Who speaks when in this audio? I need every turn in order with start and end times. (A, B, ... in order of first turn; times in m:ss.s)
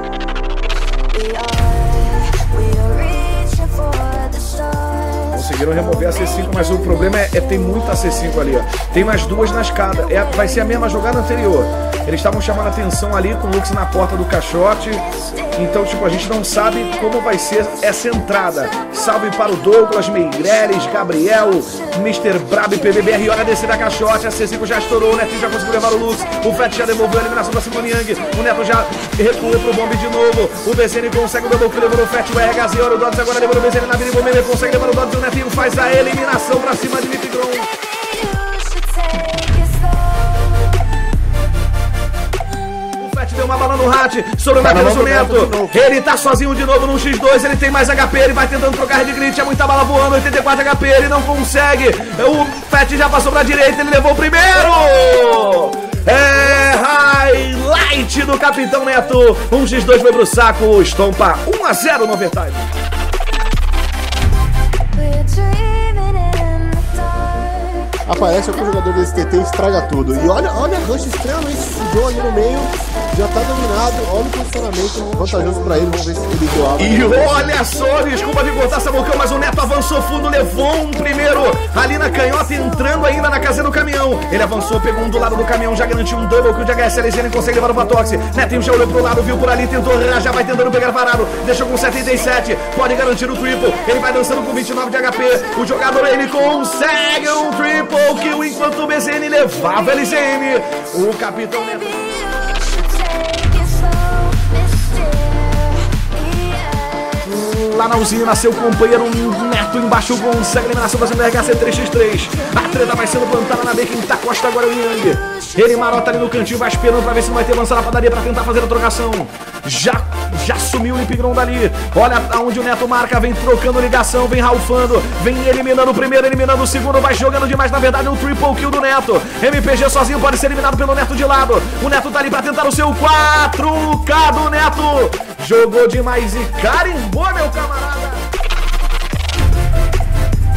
0:01.1-0:05.4 A
0:05.3-0:37.7 B
0:15.2-0:15.5 A
0:37.6-0:40.8 A
0:43.0-1:02.7 B
0:44.6-0:45.8 C
1:04.9-1:07.8 A
1:08.0-1:17.3 C
1:16.8-1:42.2 B
1:41.8-1:47.3 A
1:47.2-2:18.2 B